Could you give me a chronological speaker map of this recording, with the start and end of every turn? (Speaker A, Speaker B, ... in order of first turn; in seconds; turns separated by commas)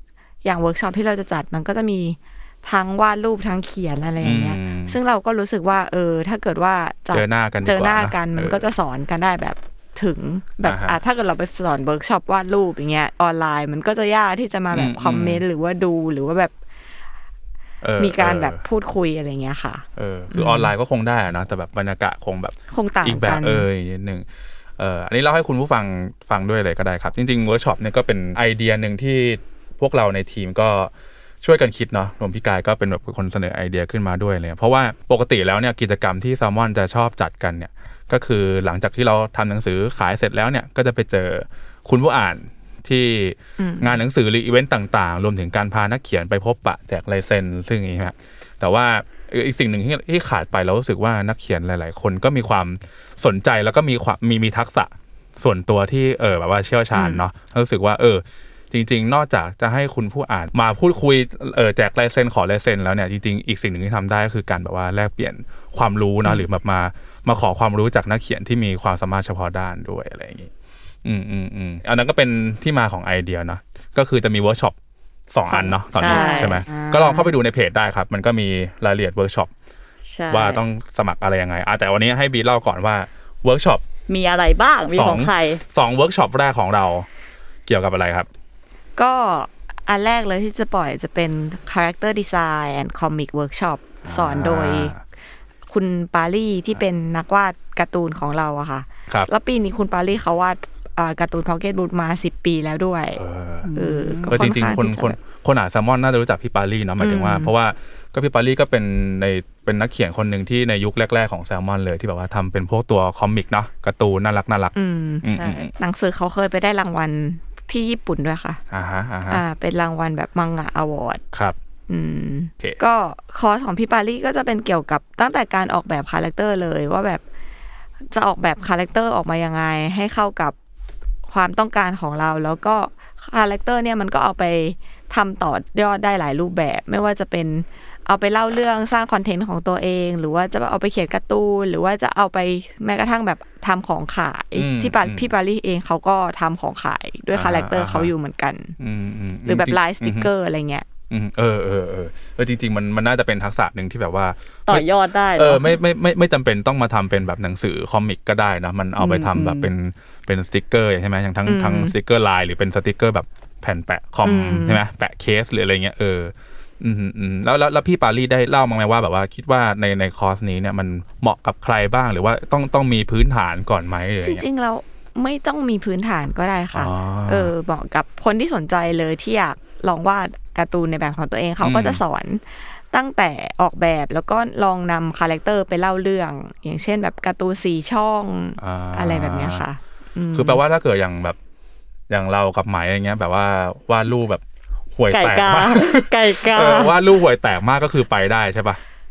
Speaker A: 0.4-16.5, Speaker B: 4.2-5.0, Speaker B: 7.1-8.7, Speaker B: 10.6-11.0, Speaker B: 14.7-15.4, Speaker B: 17.8-18.6, Speaker A: 18.0-20.7, Speaker B: 20.0-24.3, Speaker A: 22.7-23.7, Speaker B: 24.8-30.9, Speaker B: 31.4-70.5, Speaker A: 43.6-44.0, Speaker A: 56.9-57.2, Speaker B: 71.0-74.8, Speaker B: 75.3-79.5, Speaker C: 75.5-76.6, Speaker A: 76.0-77.3, Speaker C: 80.0-80.6, Speaker B: 80.3-83.8, Speaker C: 84.1-85.6, Speaker B: 84.9-87.1, Speaker B: 87.7-88.3, Speaker A: 89.0-95.0, Speaker B: 94.0-95.0, Speaker A: 95.7-103.2, Speaker B: 103.2-103.7, Speaker C: 103.7-104.4, Speaker A: 103.7-105.2, Speaker B: 104.3-115.7, Speaker A: 107.0-107.5, Speaker A: 114.8-118.6, Speaker C: 115.3-115.7, Speaker B: 118.7-119.4, Speaker A: 119.3-121.2, Speaker A: 121.9-127.2, Speaker A: 128.1-130.6, Speaker A: 131.3-148.8, Speaker B: 144.6-145.3, Speaker B: 147.3-148.1, Speaker B: 148.8-150.3, Speaker A: 149.5-150.9, Speaker B: 151.1-174.4, Speaker C: 154.7-155.8, Speaker C: 159.0-159.7, Speaker A: 161.5-161.9, Speaker A: 164.2-164.8, Speaker A: 174.2-190.6, Speaker B: 176.7-177.5, Speaker B: 181.6-182.0, Speaker B: 188.6-189.7, Speaker B: 190.3-191.4, Speaker B: 192.1-194.4, Speaker B: 194.9-198.8, Speaker C: 195.1-197.0